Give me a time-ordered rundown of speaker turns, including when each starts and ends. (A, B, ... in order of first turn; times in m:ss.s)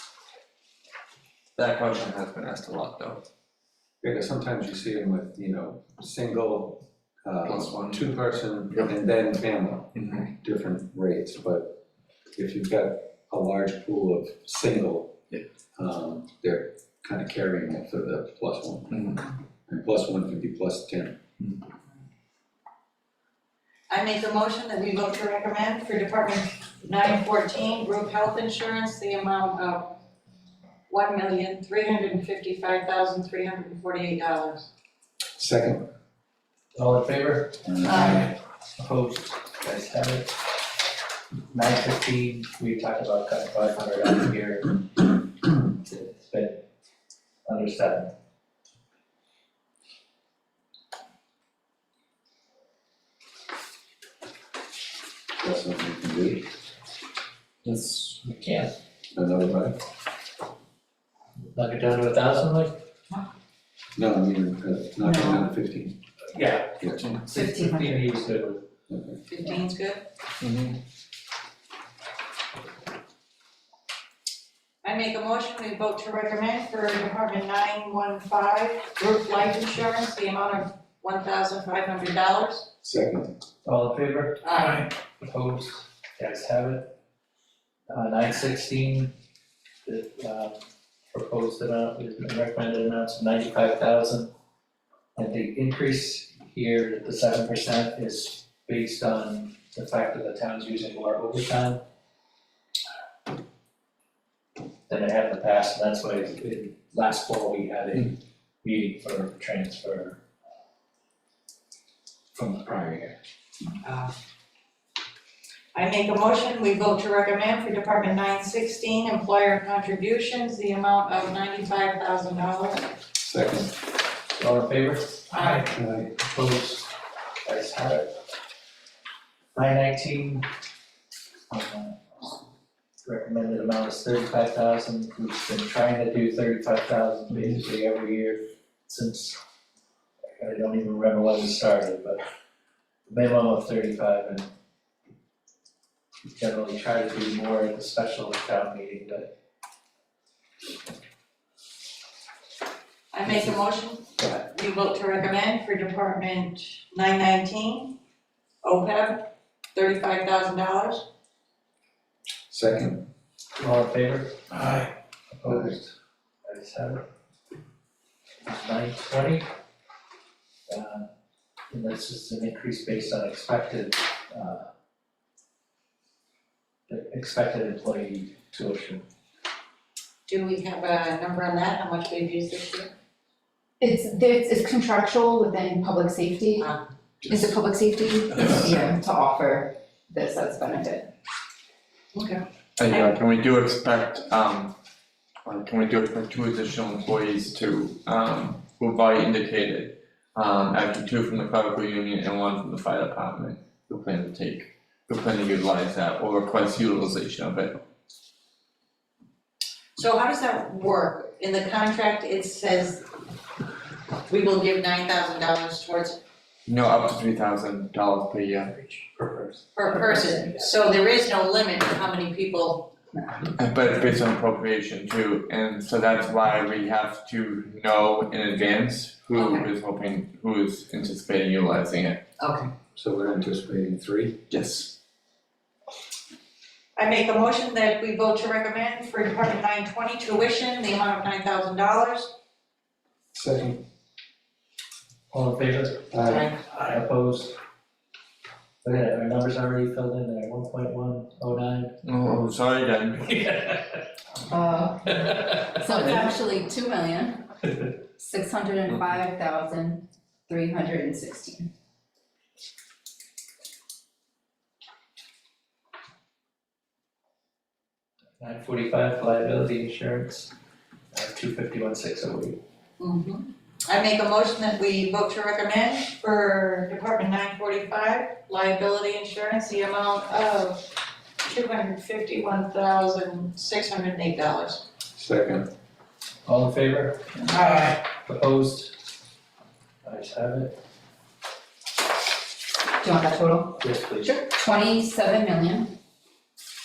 0:01.6-0:03.2 A
0:04.0-0:11.8 B
0:07.4-0:08.1 A
0:10.0-0:10.3 A
0:12.4-0:15.1 B
0:15.8-0:19.0 B
0:18.9-0:19.3 A
0:19.7-0:21.2 B
0:23.9-0:30.0 C
0:30.9-0:34.7 C
0:35.4-0:35.9 B
0:36.8-0:40.4 D
0:37.8-0:38.3 C
0:41.5-0:46.6 D
0:47.5-0:48.1 D
0:55.4-0:56.5 B
0:57.6-0:58.2 A
0:58.2-0:58.8 D
0:59.1-0:59.8 B
1:01.5-1:02.8 D
1:04.0-1:06.0 B
1:05.0-1:05.5 E
1:06.3-1:08.7 D
1:06.8-1:07.2 B
1:07.3-1:08.1 E
1:08.9-1:09.2 B
1:09.3-1:10.1 C
1:10.4-1:10.8 A
1:14.8-1:22.7 C
1:22.8-1:23.3 B
1:23.6-1:26.9 D
1:24.4-1:24.9 C
1:27.9-1:29.1 D
1:29.9-1:34.3 D
1:35.2-1:41.8 D
1:44.9-1:50.2 D
1:52.4-1:53.2 D
1:55.7-2:02.9 C
2:03.2-2:03.8 B
2:04.4-2:08.2 D
2:05.3-2:05.7 C
2:05.7-2:06.1 B
2:09.6-2:10.5 D
2:11.5-2:12.0 D
2:13.0-2:19.4 D
2:20.4-2:22.2 D
2:23.1-2:24.5 D
2:26.3-2:29.3 D
2:33.1-2:38.0 C
2:38.6-2:41.1 C
2:42.5-2:43.1 B
2:43.6-2:47.0 D
2:48.4-2:49.5 D
2:50.7-2:51.1 D
2:51.7-2:54.7 D
2:56.9-2:59.0 D
3:00.3-3:02.9 C
3:03.8-3:06.7 E
3:06.6-3:06.8 C
3:07.2-3:11.1 E
3:08.3-3:08.8 A
3:12.1-3:13.1 C
3:12.8-3:14.8 A
3:15.4-3:27.8 A
3:30.0-3:33.1 C
3:34.3-3:36.2 C
3:36.7-3:39.0 A
3:39.2-3:39.6 D
3:39.8-3:42.9 C
3:43.6-3:52.2 A
3:49.4-3:49.7 C
3:52.4-3:52.7 C
3:53.0-3:54.4 B
3:54.5-3:55.0 A
3:57.0-4:02.3 C
4:03.3-4:03.8 B
4:05.3-4:06.2 D
4:06.1-4:06.5 B
4:06.2-4:06.6 C
4:06.7-4:07.6 D
4:08.8-4:12.0 D
4:12.0-4:13.5 A
4:13.4-4:13.8 D
4:14.5-4:21.7 E
4:15.5-4:16.1 D
4:28.4-4:30.5 D
4:31.1-4:32.6 D
4:33.0-4:40.9 C
4:41.4-4:44.8 C
4:45.2-4:45.7 B
4:46.5-4:49.0 D
4:47.6-4:47.9 C
4:50.0-4:50.8 D
4:53.0-4:56.0 E
4:53.8-4:54.4 D